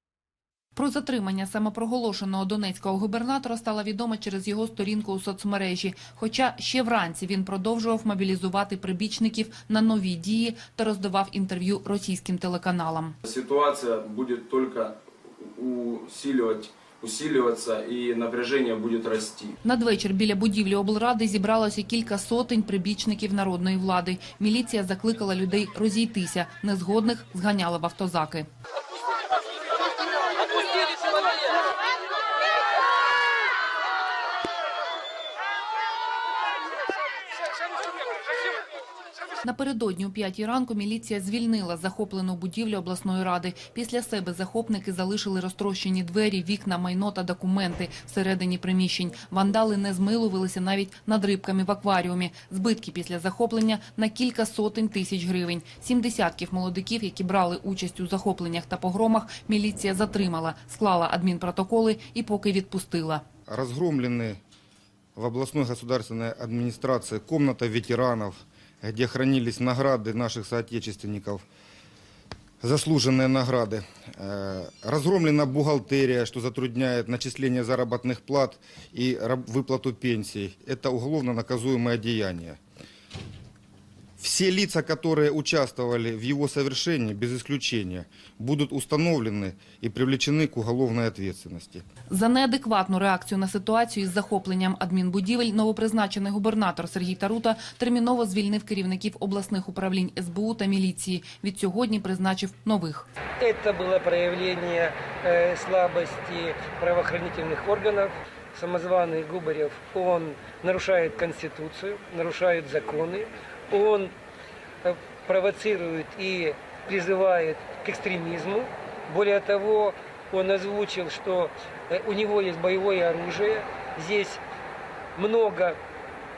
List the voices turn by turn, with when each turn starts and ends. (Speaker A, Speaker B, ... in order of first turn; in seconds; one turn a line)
Speaker A: 0.7-13.2
Speaker B: 13.3-15.0
Speaker B: 15.5-19.5
Speaker A: 19.6-28.5
Speaker A: 39.4-63.2
Speaker C: 63.5-64.4
Speaker C: 65.2-71.4
Speaker C: 72.6-82.6
Speaker C: 84.2-91.8
Speaker A: 92.1-103.0
Speaker D: 103.4-114.1
Speaker D: 114.8-124.4
Speaker D: 125.1-125.8